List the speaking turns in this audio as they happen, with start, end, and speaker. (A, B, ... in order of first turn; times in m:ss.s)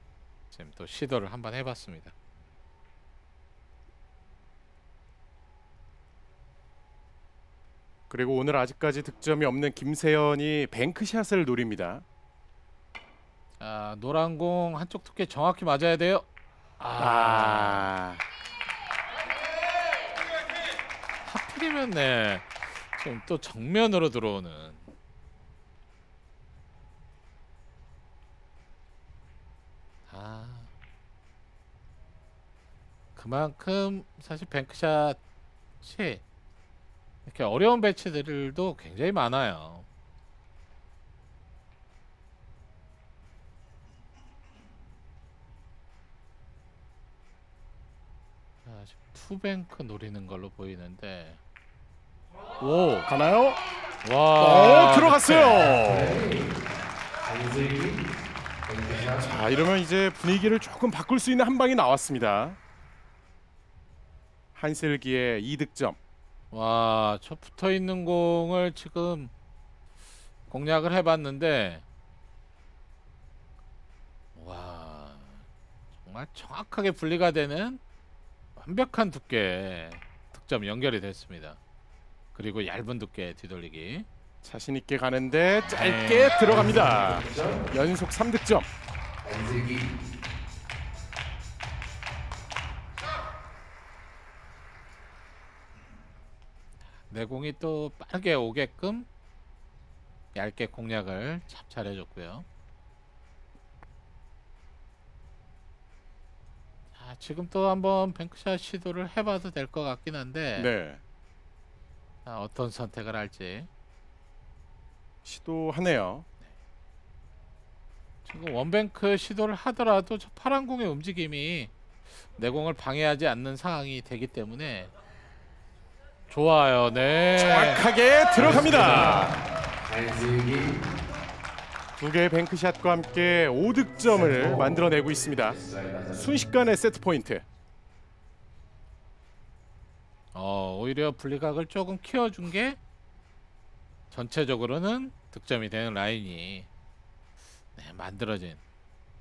0:00.5-0:02.1 A
0:08.1-0:12.0 B
0:13.6-0:16.3 A
0:16.8-0:17.9 A
0:17.0-0:18.2 B
0:21.2-0:24.9 A
0:30.1-0:30.7 A
0:33.2-0:35.2 A
0:35.8-0:36.2 A
0:37.2-0:39.9 A
0:48.6-0:51.4 A
0:52.6-0:53.1 A
0:53.1-0:53.6 B
0:54.0-0:55.8 A
0:54.4-0:56.2 B
0:55.7-0:56.6 C
0:57.2-0:58.1 C
0:58.7-0:59.2 C
0:59.2-1:02.6 B
1:04.6-1:06.0 B
1:06.5-1:09.3 A
1:10.5-1:11.8 A
1:14.4-1:15.4 A
1:16.0-1:17.8 A
1:18.6-1:21.6 A
1:22.3-1:24.1 A
1:24.4-1:28.7 B
1:25.6-1:27.2 A
1:26.5-1:27.7 C
1:29.2-1:30.0 C
1:37.1-1:39.1 A
1:40.4-1:42.5 A
1:46.9-1:50.7 A
1:50.6-1:51.0 B
1:52.2-1:53.7 A
1:55.2-1:56.3 B
1:58.2-2:01.7 A
2:02.4-2:04.9 A
2:06.3-2:07.9 A
2:07.4-2:09.4 B
2:08.5-2:09.2 C
2:08.6-2:08.9 A
2:09.8-2:10.9 C
2:12.0-2:15.6 B
2:14.1-2:14.8 C
2:15.5-2:16.4 C
2:16.1-2:17.4 B
2:20.3-2:22.8 A
2:24.1-2:26.7 A
2:27.8-2:28.6 A